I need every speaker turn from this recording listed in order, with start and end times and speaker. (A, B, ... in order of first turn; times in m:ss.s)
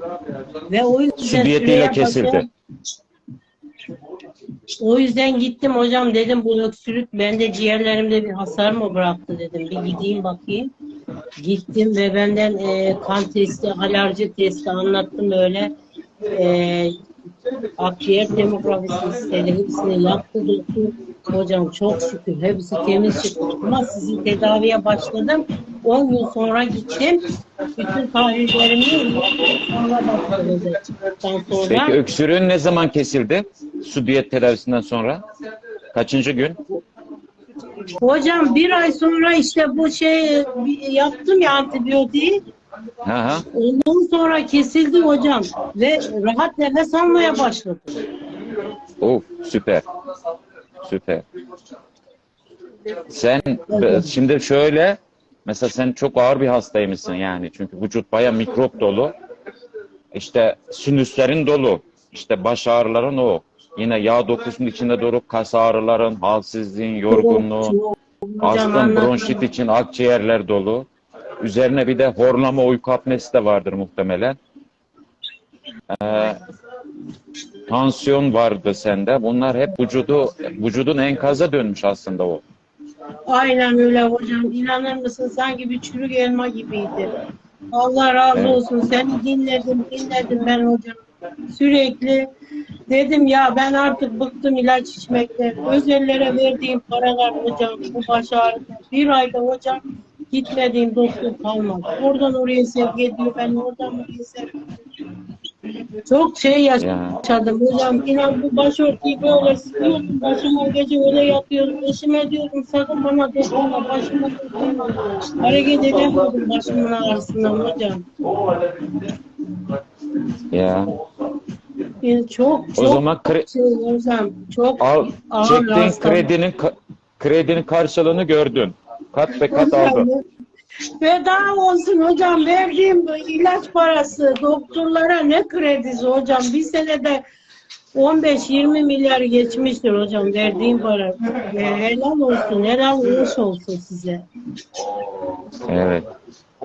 0:00.6-0:02.5 A
0:01.2-0:02.4 B
0:04.8-0:10.7 A
0:11.4-0:15.7 A
0:16.3-0:17.0 A
0:17.8-0:32.0 A
0:31.6-0:35.2 B
0:35.9-0:36.8 B
0:37.9-0:42.4 A
0:43.0-0:43.4 B
0:43.5-0:48.1 A
0:49.0-0:49.8 B
0:50.8-0:51.2 B
0:53.1-0:59.1 B
0:53.7-0:54.1 A
1:00.1-1:07.7 B
1:07.1-1:09.4 A
1:08.4-1:10.9 B
1:11.4-1:14.4 B
1:15.9-1:16.4 B
1:17.7-1:22.4 B
1:23.3-1:27.1 A
1:27.7-1:31.0 A
1:28.3-1:28.6 B
1:31.5-1:32.3 A
1:32.9-1:44.5 A
1:46.0-1:58.0 A
1:46.8-1:47.2 B
2:00.5-2:01.0 B
2:02.0-2:06.3 A
2:02.8-2:03.5 B
2:04.8-2:10.1 B
2:09.3-2:10.2 A
2:11.0-2:17.2 A
2:17.9-2:24.2 A
2:25.7-2:26.1 B